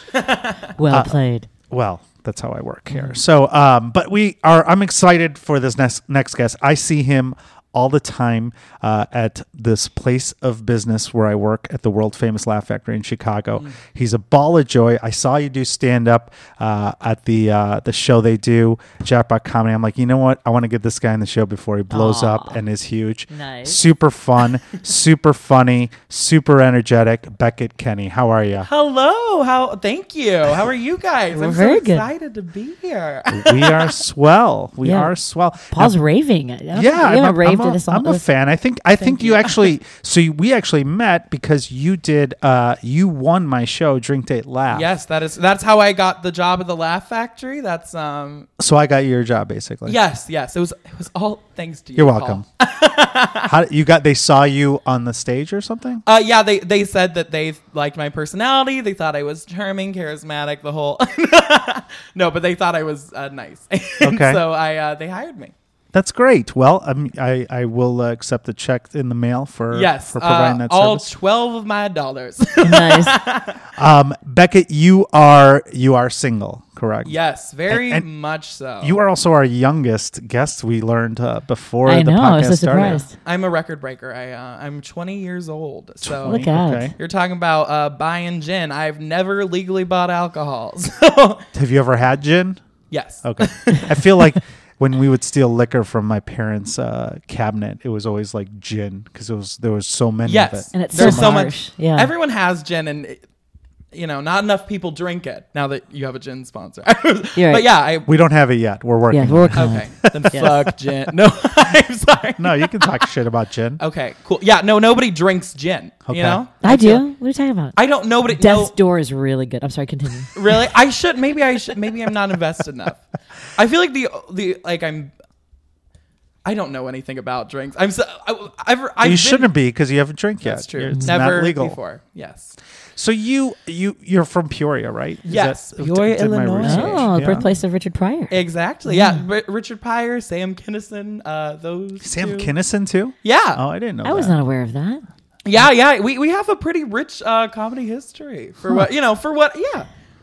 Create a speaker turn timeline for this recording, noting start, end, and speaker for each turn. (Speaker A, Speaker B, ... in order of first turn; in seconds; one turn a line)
Speaker A: 0.1-0.7
Speaker B: 0.8-1.5
Speaker C: 0.9-1.2
Speaker C: 1.7-28.7
Speaker B: 2.9-3.2
Speaker B: 21.9-22.6
Speaker B: 23.3-23.8
Speaker A: 28.6-34.0
Speaker B: 31.3-32.1
Speaker C: 33.3-36.0
Speaker B: 34.8-35.1
Speaker B: 35.7-38.2
Speaker C: 36.7-44.9
Speaker A: 39.0-39.7
Speaker A: 44.7-48.5
Speaker C: 48.6-50.0
Speaker A: 49.9-53.5
Speaker C: 52.0-52.5
Speaker C: 53.4-56.0
Speaker A: 56.0-65.5
Speaker C: 64.0-64.4
Speaker C: 65.9-71.1
Speaker A: 69.7-73.6
Speaker B: 72.6-73.2
Speaker C: 73.8-77.2
Speaker A: 77.0-79.0
Speaker C: 77.7-78.1
Speaker C: 78.8-83.0
Speaker B: 81.9-83.1
Speaker A: 82.8-86.4
Speaker C: 86.0-86.9
Speaker B: 86.2-86.9
Speaker A: 87.0-91.5
Speaker C: 91.5-92.6
Speaker A: 92.9-94.1
Speaker C: 93.2-101.5
Speaker A: 100.3-103.2
Speaker B: 100.7-102.1
Speaker A: 103.9-108.1
Speaker B: 107.4-107.7
Speaker C: 108.1-110.6
Speaker B: 109.1-110.5
Speaker A: 109.5-113.1
Speaker C: 112.4-113.8
Speaker A: 113.8-117.0
Speaker C: 116.1-116.4
Speaker B: 116.6-120.5
Speaker A: 117.8-118.8
Speaker A: 120.3-125.1
Speaker A: 126.5-129.5
Speaker C: 129.0-131.8
Speaker A: 130.4-132.6
Speaker C: 133.0-137.4
Speaker A: 135.3-137.5
Speaker B: 136.6-138.4
Speaker A: 138.3-142.5
Speaker B: 138.9-139.2
Speaker C: 142.0-144.3
Speaker A: 143.2-143.6
Speaker B: 144.0-145.1
Speaker A: 145.5-149.9